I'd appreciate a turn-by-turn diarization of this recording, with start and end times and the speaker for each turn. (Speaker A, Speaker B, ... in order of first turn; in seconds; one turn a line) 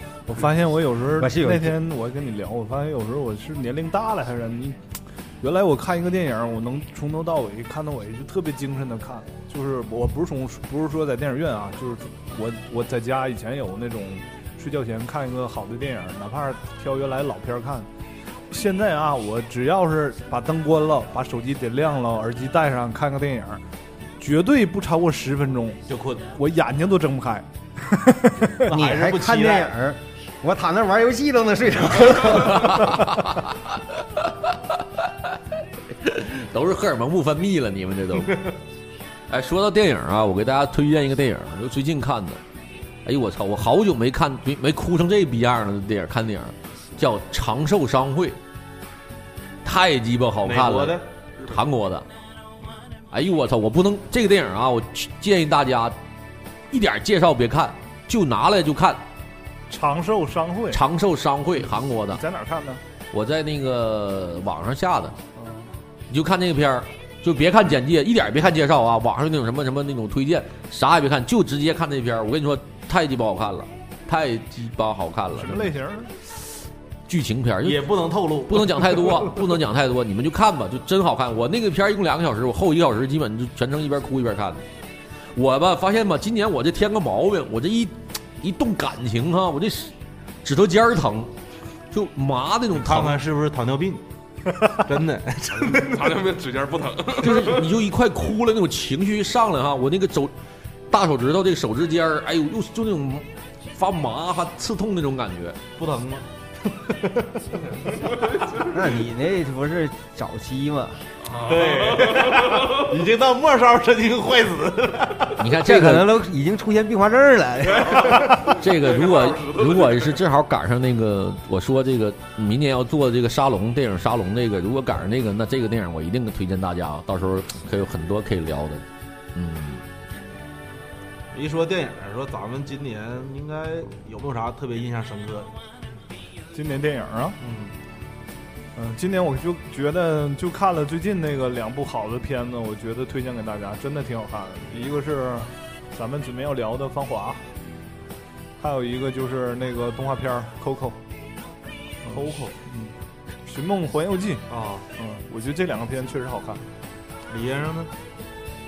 Speaker A: 0.3-4.8
Speaker B: 1.1-1.8
Speaker A: 5.4-17.9
Speaker A: 18.5-23.6
Speaker A: 24.2-25.8
Speaker C: 25.9-26.3
Speaker A: 26.3-28.6
Speaker C: 28.6-29.7
Speaker B: 28.7-33.1
Speaker D: 32.3-35.4
Speaker D: 36.0-38.4
Speaker D: 39.3-42.4
Speaker D: 43.0-48.4
Speaker D: 49.6-52.0
Speaker C: 50.4-51.0
Speaker D: 53.1-56.0
Speaker D: 56.7-59.0
Speaker A: 59.7-60.8
Speaker D: 60.7-62.2
Speaker A: 62.1-62.8
Speaker D: 63.1-65.2
Speaker A: 65.4-65.7
Speaker D: 66.1-75.7
Speaker A: 75.3-76.1
Speaker D: 77.1-77.9
Speaker C: 77.6-79.2
Speaker D: 78.5-84.7
Speaker D: 85.3-89.9
Speaker D: 90.4-91.3
Speaker D: 91.9-93.2
Speaker C: 92.8-94.0
Speaker C: 94.8-96.2
Speaker E: 95.5-97.7
Speaker D: 97.2-100.3
Speaker D: 100.9-105.6
Speaker C: 105.8-107.4
Speaker E: 107.9-108.9
Speaker B: 108.6-111.0
Speaker E: 111.3-112.8
Speaker C: 111.3-115.4
Speaker D: 115.4-116.2
Speaker B: 115.6-118.2
Speaker E: 117.9-120.2
Speaker C: 118.0-118.4
Speaker D: 118.6-128.8
Speaker D: 129.3-129.8
Speaker C: 131.3-135.5
Speaker A: 136.5-137.4
Speaker C: 137.4-137.7
Speaker A: 138.8-147.4
Speaker A: 148.6-151.0
Speaker A: 152.1-152.9
Speaker C: 152.1-152.5
Speaker A: 153.4-154.4
Speaker C: 154.5-154.9
Speaker A: 155.0-156.6
Speaker C: 157.3-157.9